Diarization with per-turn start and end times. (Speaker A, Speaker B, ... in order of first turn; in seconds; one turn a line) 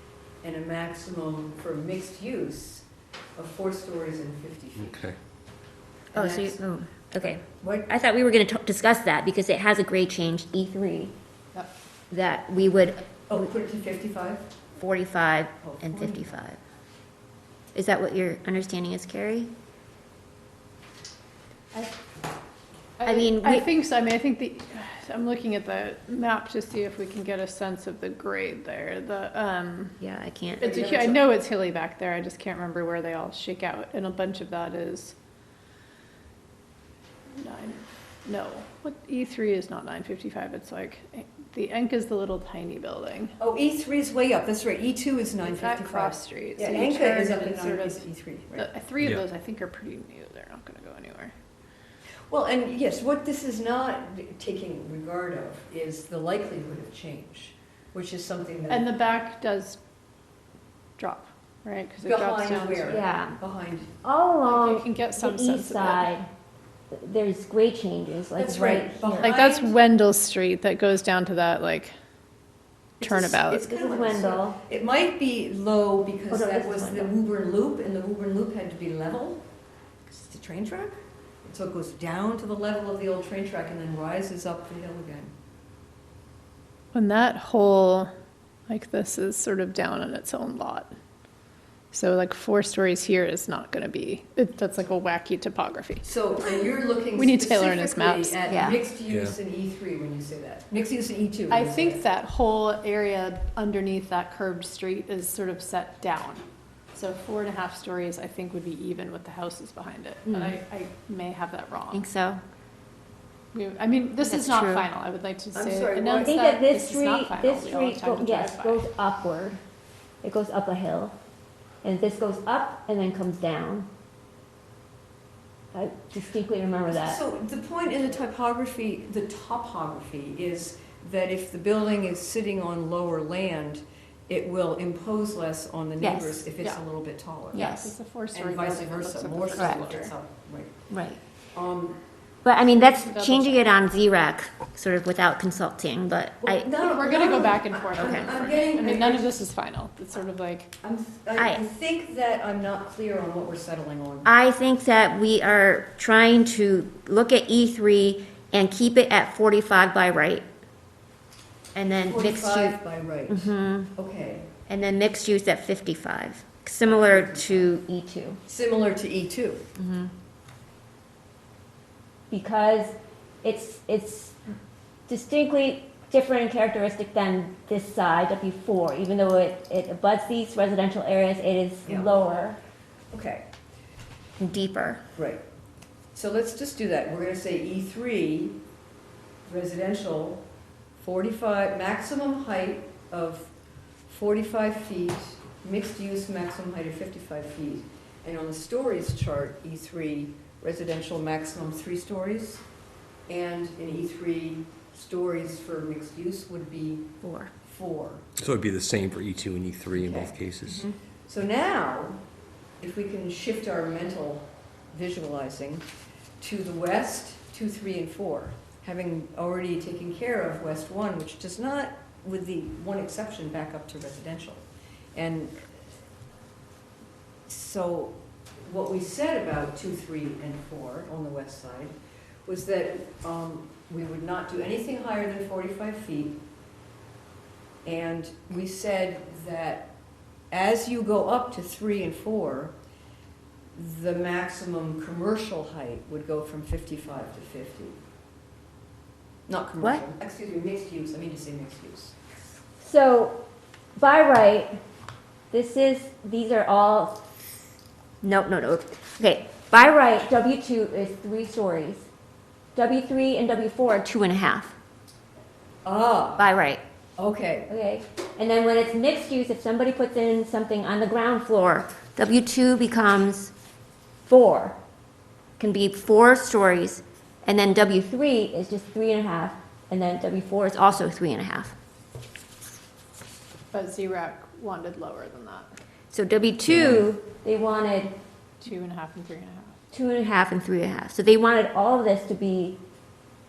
Speaker A: 0.4-2.8
Speaker A: 3.4-5.0
Speaker B: 4.8-5.2
Speaker A: 6.1-6.6
Speaker C: 6.1-11.1
Speaker A: 7.6-7.9
Speaker C: 12.1-13.5
Speaker A: 13.3-14.5
Speaker C: 14.8-16.6
Speaker A: 15.6-16.4
Speaker C: 17.7-19.5
Speaker D: 23.0-30.0
Speaker C: 23.1-23.7
Speaker C: 30.0-31.1
Speaker D: 30.6-35.1
Speaker A: 30.6-31.1
Speaker D: 37.4-43.3
Speaker A: 43.4-48.7
Speaker D: 45.5-51.3
Speaker A: 52.3-58.9
Speaker D: 58.7-59.8
Speaker D: 61.0-63.0
Speaker A: 62.0-63.9
Speaker C: 62.9-63.4
Speaker C: 64.0-66.3
Speaker D: 64.4-66.1
Speaker C: 66.9-69.3
Speaker A: 68.3-69.7
Speaker D: 69.1-71.9
Speaker A: 73.0-79.4
Speaker D: 73.0-73.6
Speaker C: 73.6-74.6
Speaker C: 76.3-77.1
Speaker A: 80.1-85.3
Speaker D: 86.9-88.1
Speaker D: 88.7-90.9
Speaker D: 91.9-98.4
Speaker A: 96.0-102.0
Speaker C: 98.5-98.8
Speaker B: 99.0-99.3
Speaker D: 101.5-112.0
Speaker C: 110.3-110.6
Speaker C: 111.9-112.4
Speaker D: 113.5-118.8
Speaker C: 114.2-114.9
Speaker A: 115.5-116.4
Speaker C: 116.2-119.6
Speaker C: 120.2-121.1
Speaker C: 121.8-123.9
Speaker C: 125.7-127.2
Speaker A: 126.9-137.7
Speaker C: 136.0-136.4
Speaker D: 137.5-140.1
Speaker C: 137.5-137.9
Speaker A: 138.3-140.8
Speaker C: 139.6-139.9
Speaker C: 140.9-141.2
Speaker A: 141.5-142.0
Speaker C: 142.4-146.8
Speaker D: 142.6-143.7
Speaker A: 146.4-149.4
Speaker D: 146.8-150.7
Speaker C: 148.0-148.4
Speaker A: 150.8-154.3
Speaker C: 151.4-151.6
Speaker C: 154.2-160.4
Speaker C: 161.8-163.9
Speaker A: 161.9-164.5
Speaker C: 164.7-168.4
Speaker A: 166.8-167.8
Speaker A: 168.5-169.7
Speaker C: 169.8-170.1
Speaker C: 172.3-174.4
Speaker C: 175.1-182.6
Speaker A: 181.9-182.1
Speaker A: 183.1-183.5
Speaker C: 184.4-185.0
Speaker A: 185.2-185.4
Speaker A: 186.1-188.6
Speaker A: 189.5-190.4
Speaker A: 191.0-193.5
Speaker A: 194.1-202.6
Speaker A: 203.3-208.2
Speaker C: 207.2-207.5
Speaker B: 208.4-210.8
Speaker A: 209.9-212.2
Speaker A: 212.8-215.8
Speaker A: 216.4-225.6
Speaker A: 227.5-231.9
Speaker A: 232.4-236.4
Speaker A: 237.8-239.9
Speaker A: 240.5-242.7
Speaker A: 243.8-248.0
Speaker A: 249.5-252.2
Speaker C: 252.8-253.4
Speaker C: 254.0-254.8
Speaker C: 255.5-257.2
Speaker C: 258.2-262.1
Speaker C: 262.8-264.8
Speaker A: 265.9-266.5
Speaker C: 266.4-266.8
Speaker A: 267.2-267.7
Speaker C: 267.7-273.5
Speaker C: 274.2-274.8
Speaker C: 275.6-281.8
Speaker D: 283.7-285.8
Speaker C: 286.1-288.1
Speaker B: 286.7-287.1
Speaker D: 288.6-289.8
Speaker C: 289.9-292.8